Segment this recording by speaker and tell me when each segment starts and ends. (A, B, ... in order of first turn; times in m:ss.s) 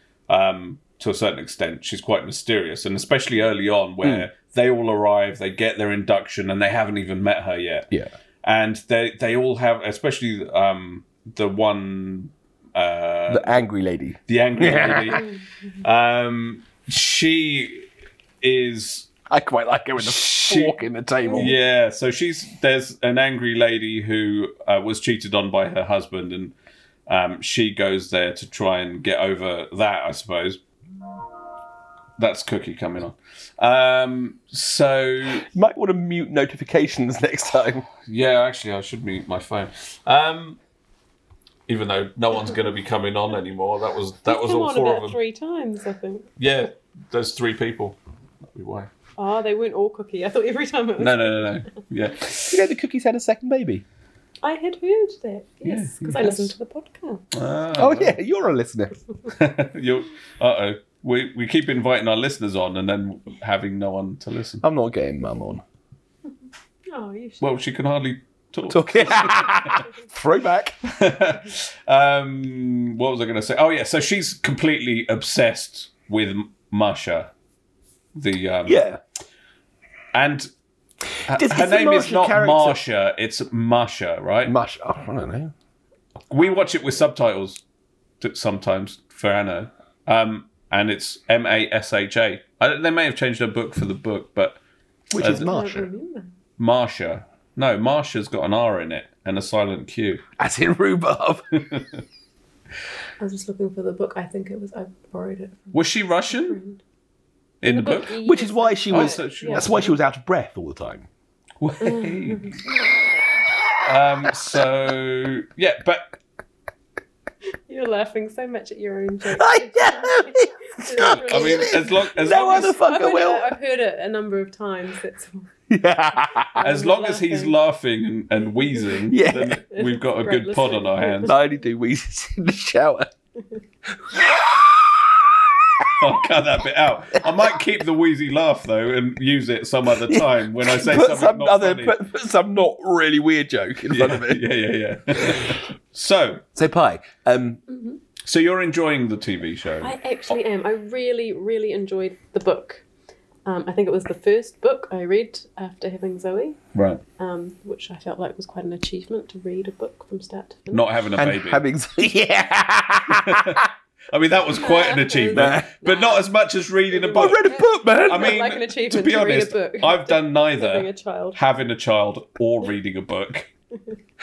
0:00.3-0:07.9 A
0:04.0-0:04.3 B
0:08.4-0:13.6 A
0:13.3-0:15.2 B
0:14.3-0:15.3 A
0:15.8-0:17.8 A
0:18.4-0:19.1 A
0:19.3-0:21.5 B
0:20.0-0:20.8 A
0:21.2-0:21.5 C
0:21.3-0:26.5 A
0:27.1-0:30.6 A
0:32.2-0:35.4 A
0:35.5-0:37.9 B
0:38.0-0:40.6 A
0:41.7-0:45.2 A
0:44.2-0:46.3 C
0:46.4-0:48.0 A
0:48.5-0:48.9 A
0:49.2-0:51.6 C
0:51.0-0:52.7 A
0:52.5-0:53.8 B
0:54.4-0:57.2 C
0:55.6-0:56.5 A
0:57.3-0:58.2 A
0:57.8-0:59.0 B
0:59.3-1:04.6 A
1:04.6-1:05.6 B
1:06.9-1:07.4 C
1:07.4-1:09.8 A
1:08.7-1:10.7 B
1:11.0-1:17.3 A
1:18.1-1:18.8 A
1:18.6-1:19.0 B
1:20.1-1:20.5 A
1:21.3-1:24.5 A
1:21.3-1:22.8 B
1:24.4-1:25.5 B
1:26.3-1:27.6 A
1:28.2-1:34.6 A
1:35.1-1:35.9 B
1:35.2-1:35.4 A
1:35.2-1:36.3 C
1:36.6-1:40.2 A
1:40.4-1:41.6 B
1:41.7-1:42.0 A
1:43.2-1:45.8 C
1:45.7-1:46.6 A
1:46.3-1:46.8 C
1:47.6-1:48.1 A
1:47.6-1:49.8 C
1:48.2-1:51.1 B
1:48.9-1:49.9 A
1:51.6-1:52.6 A
1:51.8-1:52.5 C
1:53.8-1:56.1 A
1:57.7-2:05.5 C
1:59.3-2:03.6 B
2:01.1-2:02.8 A
2:05.7-2:06.6 B
2:06.6-2:07.5 C
2:06.6-2:11.4 A
2:09.1-2:09.6 B
2:09.7-2:11.4 C
2:11.2-2:13.1 B
2:13.9-2:16.1 B
2:16.0-2:22.0 A
2:17.2-2:17.5 B
2:19.9-2:24.4 B
2:23.9-2:26.4 A
2:25.2-2:25.6 B
2:26.5-2:27.6 B
2:27.7-2:28.0 C
2:28.2-2:30.0 A
2:29.8-2:32.8 C
2:33.4-2:36.6 C
2:36.7-2:37.0 A
2:37.2-2:41.0 C
2:40.7-2:41.6 A
2:41.2-2:43.7 B
2:43.1-2:47.5 A
2:44.5-2:46.3 C
2:45.3-2:45.7 B
2:46.9-2:51.4 C
2:47.1-2:48.5 B
2:48.0-2:53.5 A